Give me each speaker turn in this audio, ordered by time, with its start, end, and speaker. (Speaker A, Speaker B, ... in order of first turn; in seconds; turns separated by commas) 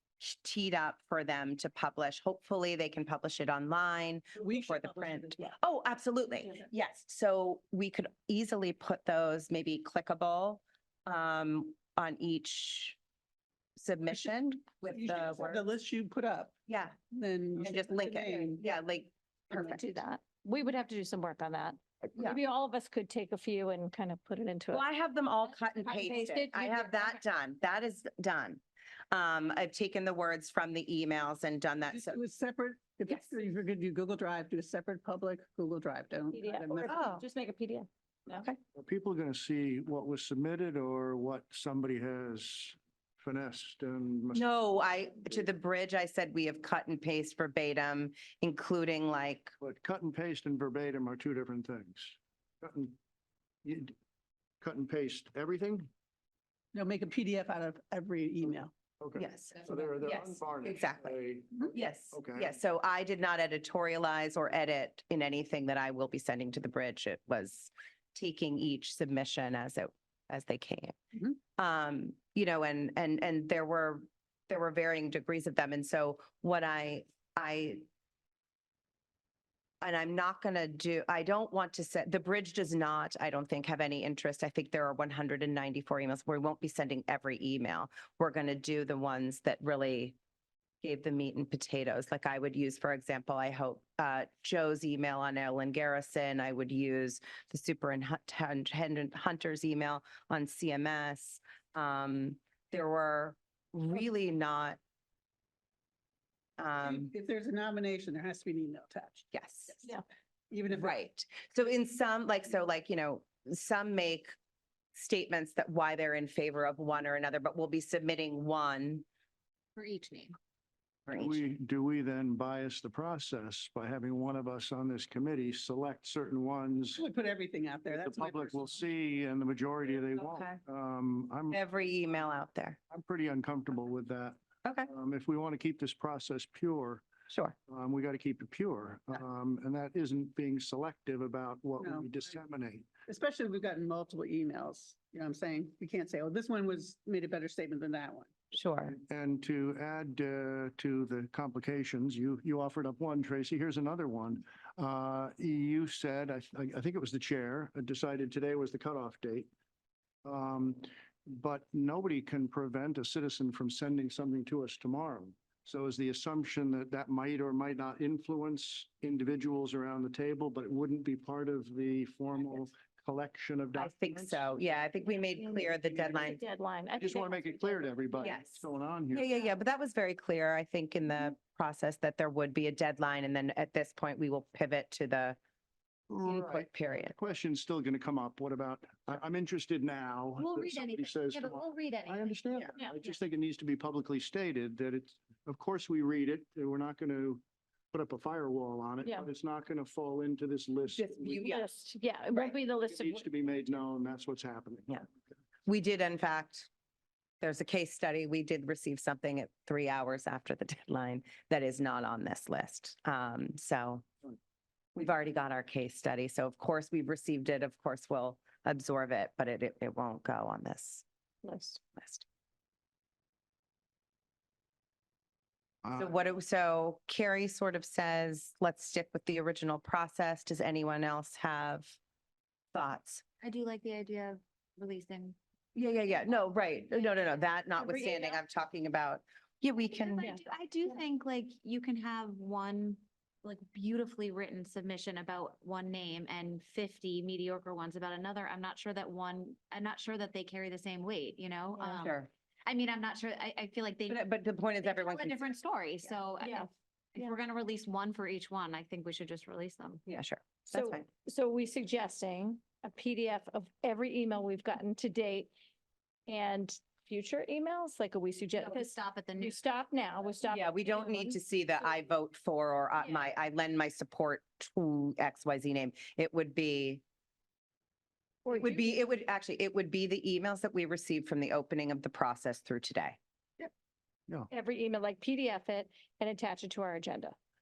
Speaker A: 0.2-13.0, Speaker B: 4.4-5.5, Speaker A: 13.8-15.6, Speaker B: 14.9-16.5, Speaker A: 16.7-16.9, Speaker B: 17.1-18.6, Speaker A: 17.6-19.8, Speaker C: 19.5-24.8, Speaker A: 24.7-32.2, Speaker C: 25.8-27.2, Speaker B: 31.9-36.9, Speaker C: 36.3-38.4, Speaker A: 36.9-37.2, Speaker A: 38.3-38.6, Speaker D: 38.7-44.5, Speaker A: 44.3-49.5, Speaker D: 49.6-53.0, Speaker D: 53.6-53.9, Speaker D: 54.6-55.9, Speaker B: 56.7-58.7, Speaker D: 59.0-62.6, Speaker A: 59.1-61.2, Speaker A: 61.7-77.8, Speaker A: 79.8-90.2, Speaker A: 90.8-104.8, Speaker A: 106.6-107.1, Speaker B: 106.8-110.0, Speaker A: 109.3-109.9, Speaker B: 110.5-110.9, Speaker A: 110.7-114.3, Speaker A: 114.9-119.0, Speaker E: 119.8-120.3, Speaker A: 121.1-121.4, Speaker D: 121.1-127.0, Speaker B: 127.0-128.8, Speaker D: 127.9-131.6, Speaker A: 130.2-130.6, Speaker A: 131.5-132.8, Speaker D: 132.9-137.1, Speaker A: 134.6-134.9, Speaker A: 137.3-137.6, Speaker D: 137.7-142.9, Speaker B: 141.8-142.1, Speaker B: 143.1-148.3, Speaker A: 148.5-149.0, Speaker D: 148.9-159.5, Speaker D: 160.2-174.5, Speaker A: 173.7-176.4, Speaker C: 175.4-178.4, Speaker D: 177.0-179.2, Speaker A: 178.2-185.4, Speaker D: 186.1-201.4, Speaker A: 186.2-187.2, Speaker E: 190.4-192.7, Speaker A: 200.9-201.7, Speaker C: 201.4-203.2, Speaker D: 202.9-204.9, Speaker A: 205.7-206.7, Speaker A: 207.4-214.1, Speaker A: 214.9-221.0, Speaker C: 221.4-221.8, Speaker A: 221.9-222.2, Speaker D: 225.8-226.2, Speaker A: 225.9-232.0, Speaker A: 232.7-233.2, Speaker E: 233.4-235.3, Speaker A: 235.7-240.3, Speaker E: 237.8-238.4, Speaker E: 240.0-254.3, Speaker A: 251.8-252.3, Speaker A: 254.1-255.4, Speaker E: 254.8-260.0, Speaker C: 256.4-257.3, Speaker A: 260.1-261.1, Speaker C: 260.7-265.5, Speaker C: 266.3-271.4, Speaker E: 268.6-269.6, Speaker A: 270.4-277.0, Speaker C: 278.4-279.0, Speaker A: 278.5-283.2, Speaker C: 284.5-287.4